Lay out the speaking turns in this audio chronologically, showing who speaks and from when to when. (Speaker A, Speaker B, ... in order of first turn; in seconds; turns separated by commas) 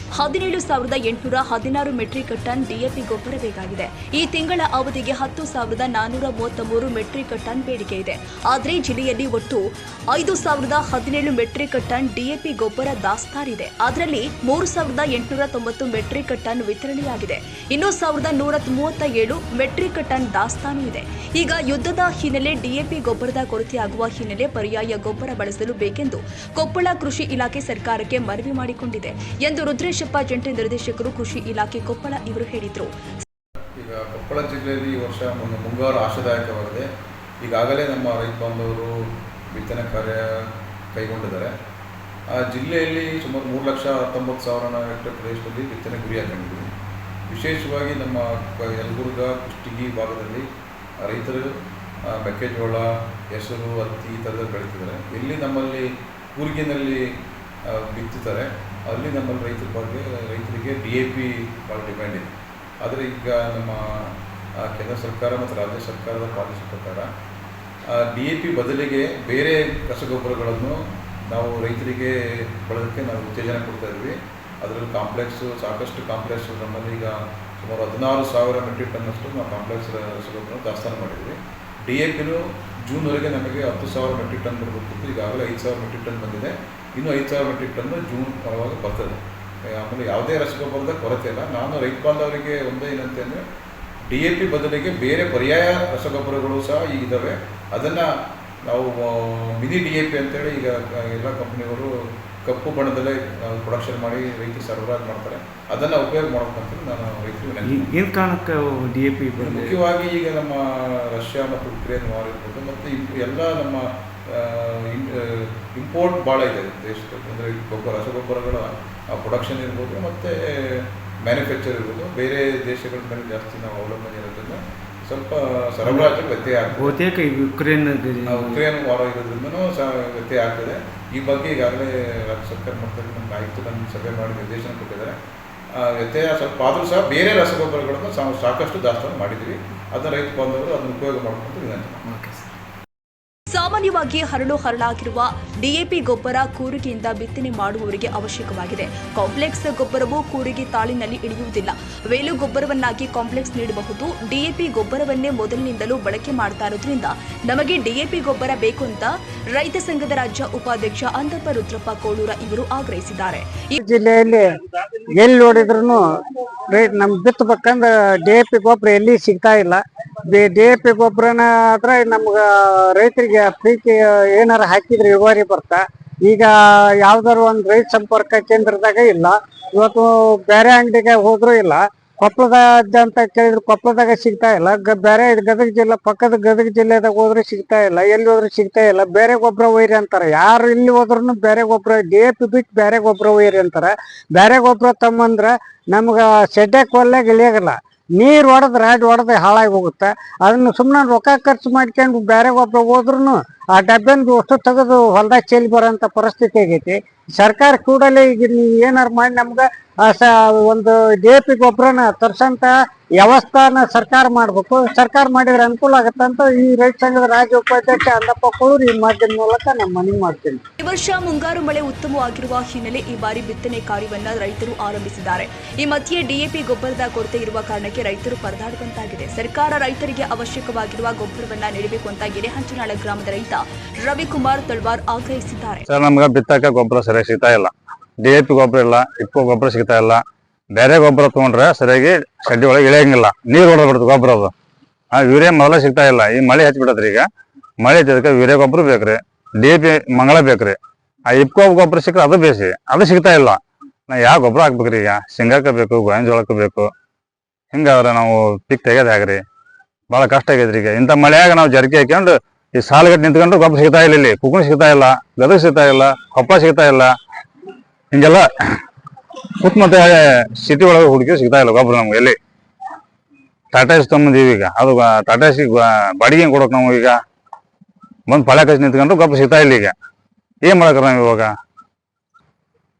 Speaker A: 0.2-32.9, Speaker B: 33.8-36.9, Speaker B: 37.4-41.5, Speaker B: 42.3-46.7, Speaker B: 47.3-50.5, Speaker B: 51.0-51.5, Speaker B: 52.1-57.1, Speaker B: 57.7-62.3, Speaker B: 62.8-67.1, Speaker B: 67.9-81.4, Speaker B: 81.9-89.2, Speaker B: 89.8-93.4, Speaker B: 94.1-98.1, Speaker B: 98.7-101.9, Speaker B: 102.5-108.0, Speaker C: 107.6-109.8, Speaker B: 109.3-127.0, Speaker C: 125.8-126.1, Speaker C: 126.7-128.6, Speaker B: 128.2-135.2, Speaker B: 135.8-142.1, Speaker C: 142.1-142.4, Speaker A: 143.5-163.8, Speaker D: 163.8-164.4, Speaker D: 165.2-166.0, Speaker D: 166.7-176.5, Speaker D: 177.0-220.6, Speaker A: 220.8-235.8, Speaker E: 235.9-240.2, Speaker E: 240.8-244.5, Speaker E: 245.1-247.2, Speaker E: 247.8-250.8, Speaker E: 251.3-256.9, Speaker E: 257.7-259.4, Speaker E: 260.1-267.1, Speaker E: 268.1-268.4, Speaker E: 269.6-272.4, Speaker E: 273.7-277.2, Speaker E: 278.3-279.9, Speaker E: 280.6-281.5